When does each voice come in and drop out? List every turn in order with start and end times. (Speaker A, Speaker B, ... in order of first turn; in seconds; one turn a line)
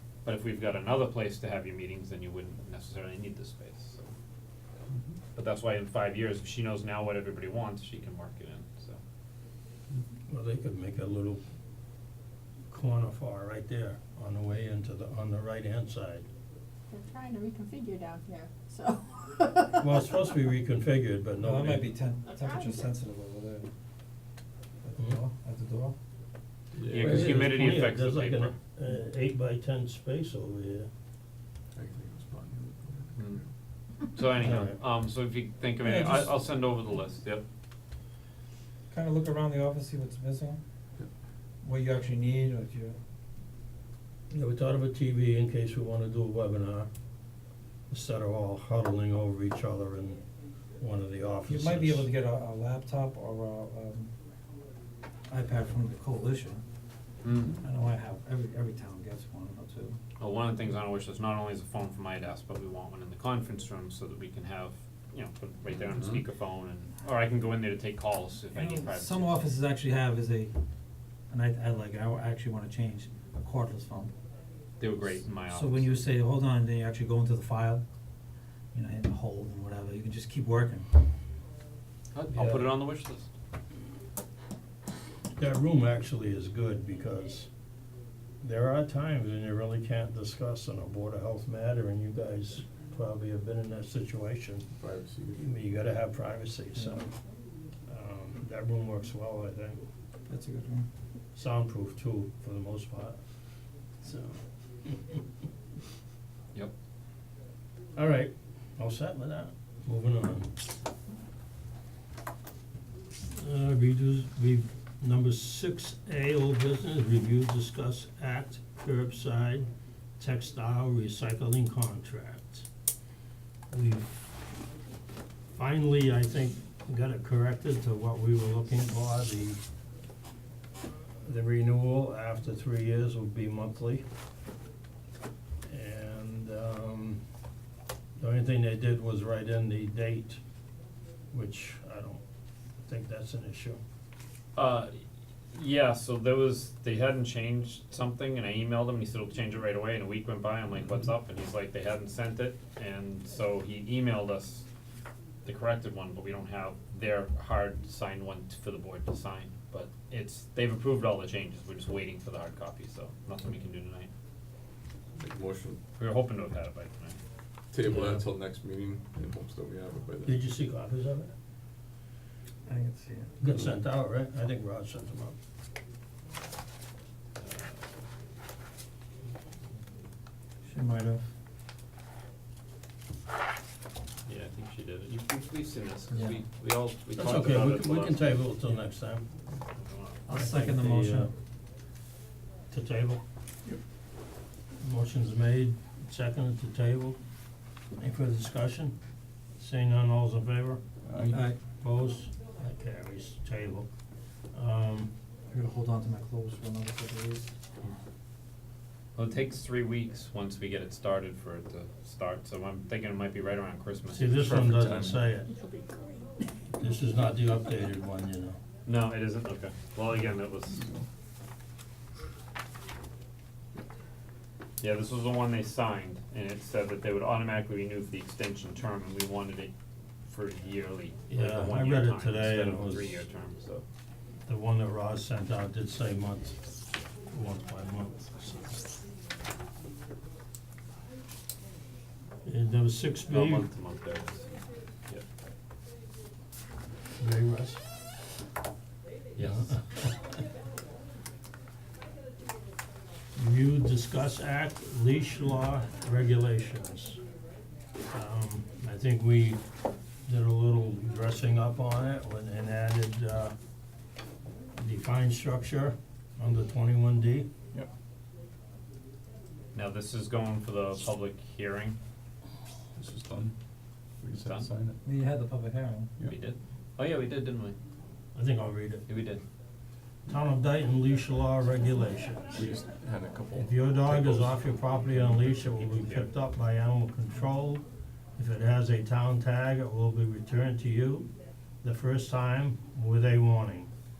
Speaker A: 0.2-4.1
Speaker A: 5.3-9.0
Speaker B: 10.3-11.4
Speaker B: 12.7-16.3
Speaker C: 16.9-19.9
Speaker B: 19.8-21.9
Speaker D: 21.4-23.7
Speaker C: 22.3-22.8
Speaker D: 24.8-25.9
Speaker E: 26.8-27.5
Speaker A: 26.9-28.5
Speaker B: 27.0-30.9
Speaker E: 31.8-33.4
Speaker A: 33.1-33.4
Speaker A: 34.0-37.4
Speaker B: 34.4-34.8
Speaker D: 35.8-36.3
Speaker D: 38.9-40.6
Speaker D: 41.6-43.0
Speaker B: 44.3-46.9
Speaker B: 47.9-50.2
Speaker B: 50.8-52.1
Speaker D: 51.5-54.1
Speaker D: 55.3-56.6
Speaker A: 57.2-57.6
Speaker D: 57.6-60.0
Speaker A: 60.2-69.3
Speaker E: 65.9-66.2
Speaker D: 68.5-70.5
Speaker D: 71.3-74.1
Speaker A: 74.8-76.0
Speaker D: 75.5-77.8
Speaker D: 78.7-80.9
Speaker A: 82.1-83.3
Speaker B: 82.3-82.7
Speaker B: 85.4-87.5
Speaker B: 88.4-94.7
Speaker E: 94.8-95.5
Speaker B: 95.4-97.1
Speaker D: 96.8-97.0
Speaker B: 97.9-99.8
Speaker D: 100.3-100.9
Speaker B: 101.3-103.2
Speaker B: 104.0-105.2
Speaker B: 108.0-110.6
Speaker B: 113.2-119.7
Speaker B: 120.2-122.7
Speaker B: 123.7-124.4
Speaker B: 125.5-129.6
Speaker B: 131.2-134.0
Speaker B: 135.7-137.2
Speaker B: 138.2-140.4
Speaker B: 141.3-142.2
Speaker B: 142.8-143.8
Speaker A: 144.6-154.7
Speaker A: 155.4-164.1
Speaker E: 165.2-165.8
Speaker A: 166.0-167.2
Speaker E: 167.7-170.4
Speaker B: 170.2-171.3
Speaker D: 172.7-173.3
Speaker B: 173.4-175.4
Speaker A: 177.4-177.8
Speaker D: 180.6-181.3
Speaker A: 184.2-188.5
Speaker B: 187.2-189.2
Speaker A: 189.7-190.2
Speaker D: 190.3-191.3
Speaker B: 190.3-191.3
Speaker B: 192.7-193.2
Speaker B: 194.8-197.2
Speaker B: 198.0-198.9
Speaker B: 199.6-200.8
Speaker E: 201.1-201.4
Speaker D: 201.3-201.6
Speaker B: 201.8-203.9
Speaker B: 204.5-205.1
Speaker D: 205.5-207.5
Speaker A: 209.2-214.9
Speaker B: 214.1-215.5
Speaker E: 214.4-215.2
Speaker C: 215.5-216.4
Speaker B: 216.8-218.6
Speaker A: 218.8-220.8
Speaker A: 224.8-229.7
Speaker A: 230.2-233.8
Speaker B: 231.3-233.2
Speaker B: 234.5-236.6
Speaker B: 237.3-238.9
Speaker B: 242.4-243.7
Speaker A: 243.3-245.2
Speaker B: 247.2-247.8
Speaker A: 249.3-249.7
Speaker B: 249.4-250.2
Speaker B: 253.3-257.2
Speaker B: 258.1-259.6
Speaker B: 260.2-263.5
Speaker B: 264.7-267.5
Speaker A: 269.7-272.0
Speaker E: 272.9-273.5
Speaker E: 274.2-275.0
Speaker A: 274.3-274.7
Speaker D: 275.0-276.1
Speaker A: 276.2-277.8
Speaker B: 278.3-279.1
Speaker A: 279.1-279.4
Speaker B: 280.3-282.6
Speaker E: 282.5-284.7
Speaker B: 283.5-287.8
Speaker A: 285.8-286.2
Speaker B: 288.4-291.3
Speaker B: 291.8-293.9